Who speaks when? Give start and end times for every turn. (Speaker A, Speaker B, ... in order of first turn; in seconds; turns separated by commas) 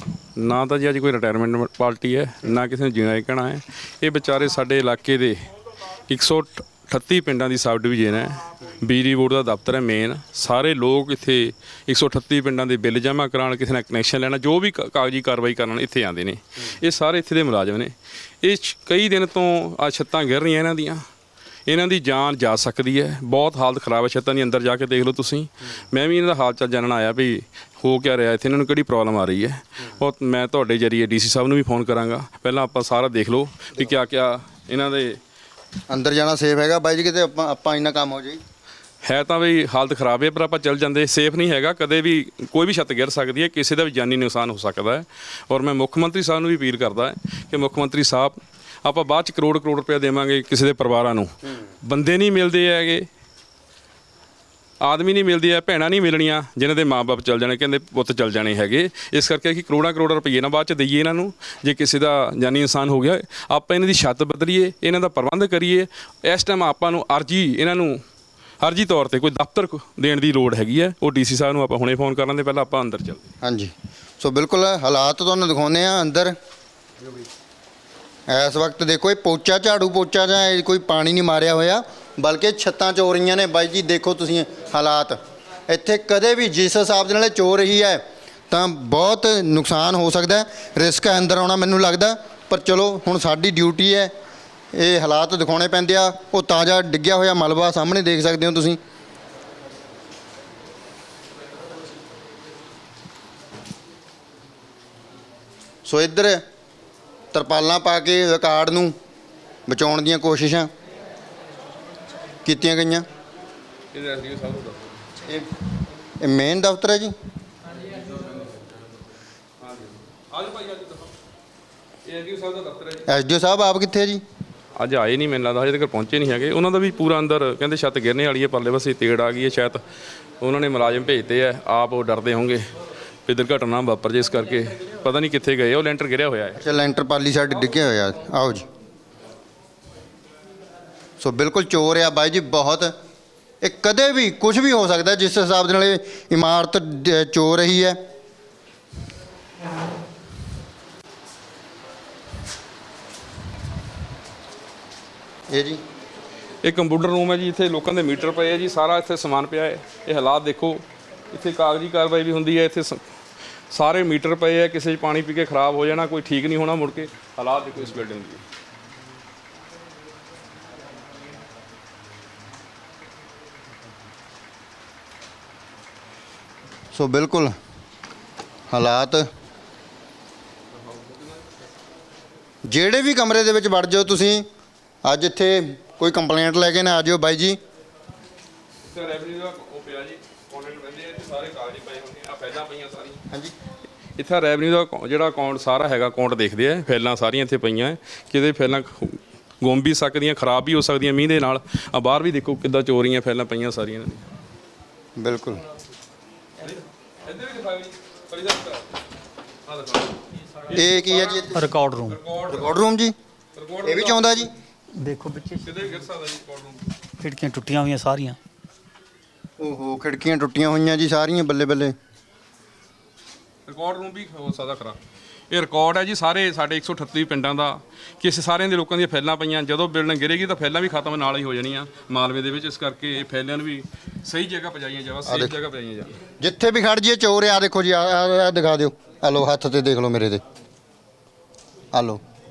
Speaker A: 0.4-5.4, Speaker A: 6.1-21.0, Speaker A: 21.7-35.2, Speaker B: 35.9-38.4, Speaker A: 39.0-51.3, Speaker A: 51.8-53.1, Speaker A: 54.8-68.0, Speaker A: 68.6-73.2, Speaker B: 73.4-76.3, Speaker B: 78.3-94.1, Speaker B: 94.7-98.8, Speaker B: 105.8-106.4, Speaker B: 107.3-108.9, Speaker B: 109.7-110.7, Speaker B: 112.4-113.0, Speaker A: 113.9-115.0, Speaker B: 116.2-117.1, Speaker A: 119.6-121.1, Speaker A: 122.0-123.0, Speaker B: 123.1-124.2, Speaker A: 124.8-129.8, Speaker A: 130.4-132.6, Speaker A: 133.3-136.6, Speaker B: 136.6-138.7, Speaker B: 141.2-142.9, Speaker B: 143.6-148.0, Speaker B: 155.5-155.8, Speaker A: 156.6-163.0, Speaker A: 163.7-168.4, Speaker B: 176.9-177.5, Speaker B: 178.7-179.3, Speaker A: 180.8-181.4, Speaker B: 182.7-184.4, Speaker B: 185.0-187.6, Speaker A: 188.8-193.2, Speaker A: 194.2-204.2, Speaker B: 205.2-205.6, Speaker A: 206.6-208.9, Speaker A: 209.7-212.7, Speaker B: 210.7-211.6, Speaker C: 211.6-212.1, Speaker B: 212.5-213.1, Speaker A: 213.6-214.5, Speaker B: 213.8-214.5, Speaker C: 215.0-215.6, Speaker A: 215.6-216.9, Speaker C: 217.2-218.4, Speaker B: 219.6-221.9, Speaker A: 223.7-225.0, Speaker A: 225.5-236.2, Speaker B: 235.2-235.5, Speaker B: 236.4-240.4, Speaker B: 241.9-242.2